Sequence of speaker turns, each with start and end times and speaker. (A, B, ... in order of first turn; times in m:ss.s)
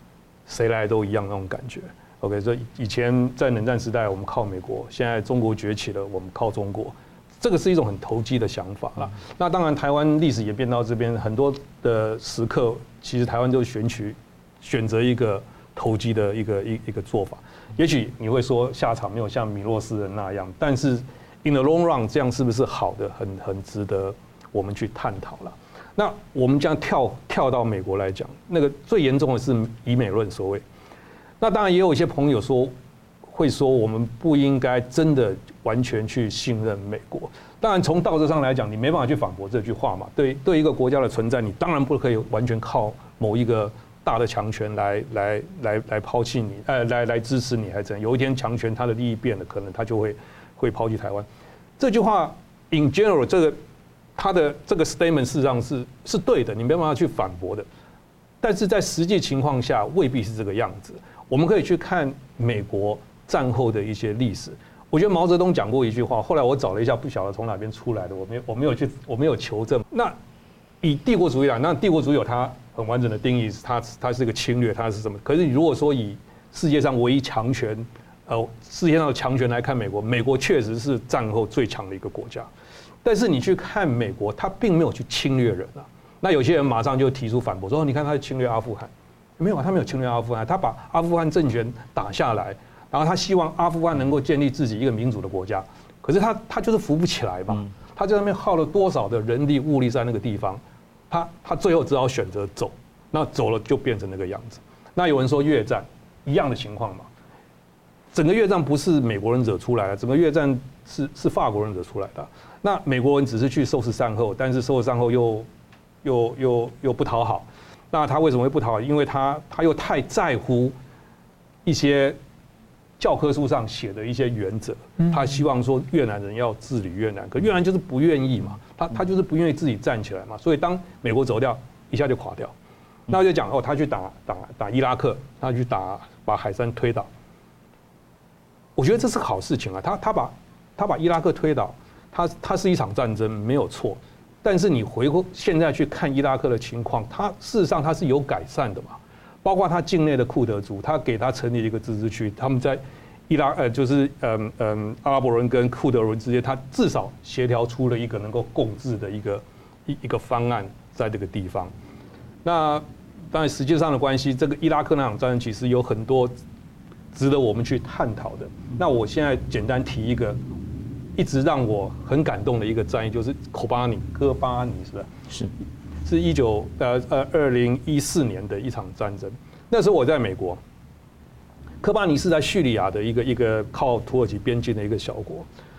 0:00.5-0:30.6 A
0:31.4-0:32.7 A
0:33.3-0:51.3 A
0:51.8-0:53.6 A
0:54.2-0:57.7 A
0:58.4-1:10.2 A
1:10.8-1:22.5 A
1:23.0-1:47.1 A
1:48.1-1:55.5 A
1:56.0-2:00.7 A
2:01.6-2:02.2 A
2:03.0-2:12.5 A
2:13.1-2:17.1 A
2:18.8-2:41.7 A
2:42.4-2:46.3 A
2:47.1-2:50.4 A
2:51.2-2:55.1 A
2:56.0-3:00.6 A
3:01.8-3:05.5 A